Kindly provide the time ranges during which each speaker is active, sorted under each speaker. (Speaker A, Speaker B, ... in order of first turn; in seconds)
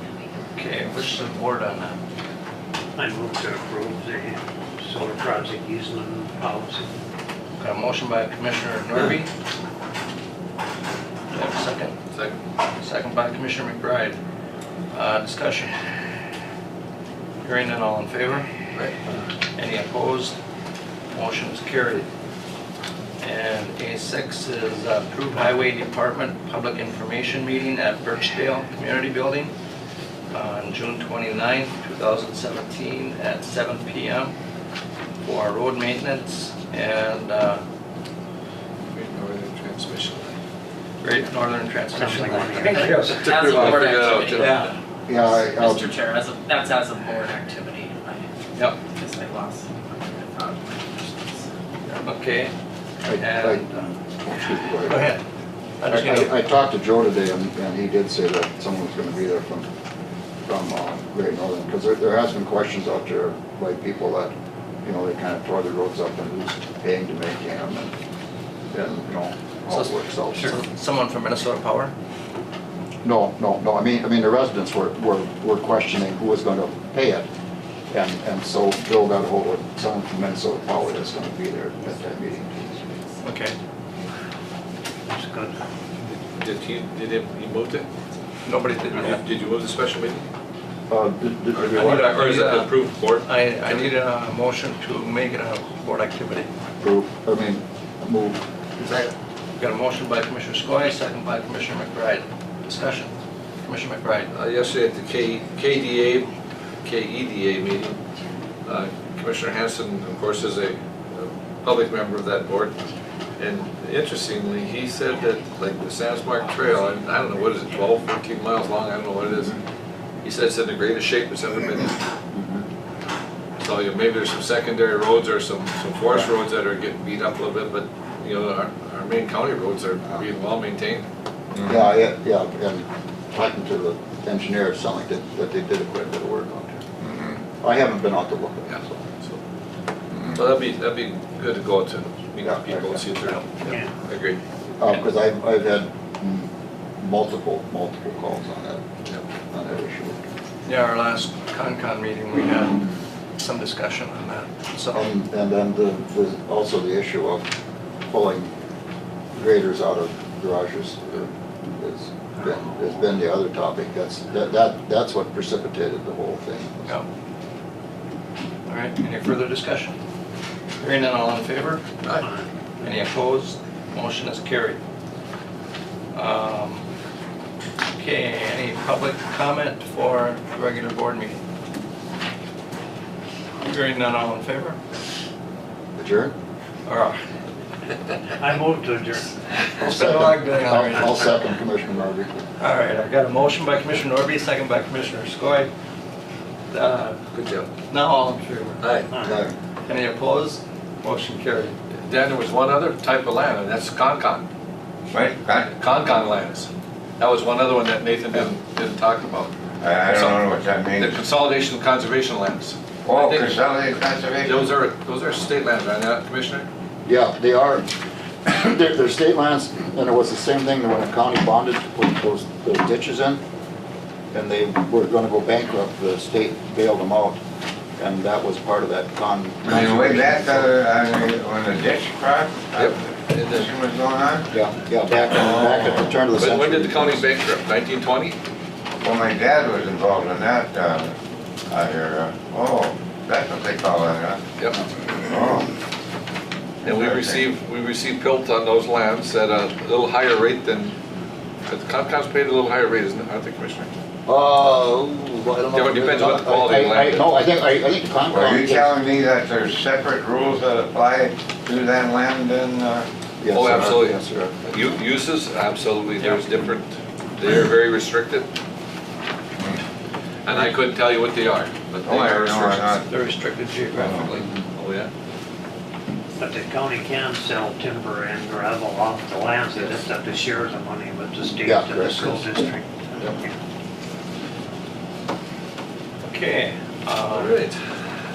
Speaker A: 0.5-2.0, 7.6-9.3, 11.3-12.0, 12.8-14.2, 14.9-15.8, 17.4-18.5, 19.6-20.4, 21.1-22.1, 23.2-29.5, 30.3-34.4, 35.2-37.6, 41.0-44.7, 51.9-52.5, 53.2-53.8, 54.9-55.2, 55.8-56.4, 69.7-71.9, 83.2-83.5, 88.5-89.2, 91.7-96.5, 99.6-103.1, 103.6-104.3, 150.7-155.1, 168.7-169.9, 170.8-171.8, 172.8-174.8, 176.1-176.8, 178.0-181.4, 183.6-184.8, 186.9-187.2, 189.8-191.2, 192.6-195.7, 196.7-197.2, 197.9-198.8, 199.9-201.8, 273.1-274.5, 286.2-287.6
Speaker B: 3.0-6.9, 41.9-43.2, 85.1-85.5, 172.2-172.8, 188.4-189.4, 190.9-191.2, 199.1-199.4, 276.4-283.6
Speaker C: 12.1-12.4, 38.9-40.4, 43.1-44.7, 86.0-87.9, 88.9-90.3, 91.5-93.9, 104.3-106.3, 106.8-108.0, 108.7-112.8, 113.4-119.5, 120.2-122.0, 123.6-131.1, 138.7-139.4, 140.3-144.4, 197.3-197.7, 198.8-199.1, 202.0-204.5, 205.5-209.5, 210.0-210.4, 211.0-213.6, 214.4-216.7, 232.8-233.7, 236.4-238.4, 246.8-250.9, 251.7-253.9, 255.7-257.3, 263.5-268.5, 270.4-273.0, 274.8-275.1, 287.3-287.8
Speaker D: 42.6-51.5
Speaker E: 45.1-46.0, 53.0-55.1, 55.9-59.7, 60.5-67.9, 68.7-70.6, 73.0-77.3, 77.9-83.0, 90.9-92.2, 96.8-99.1, 122.3-122.7, 131.7-136.8, 137.6-139.0, 142.4-143.3, 144.8-148.8, 149.5-150.2, 154.9-157.5, 158.1-158.5, 159.3-167.0, 186.0-186.3, 189.8-192.5, 199.2-199.5, 217.1-217.9, 218.4-223.4, 224.3-227.4, 228.0-230.8, 234.5-237.2, 254.3-259.0, 263.4-264.6, 281.6-282.5
Speaker F: 131.5-131.9, 137.0-137.4, 140.1-140.4, 205.1-205.7, 209.8-211.2, 213.1-214.7, 229.7-234.5, 235.5-236.1, 239.0-241.2, 241.7-244.4, 245.2-245.7, 246.8-247.5, 258.3-263.1, 272.1-273.1, 274.0-274.2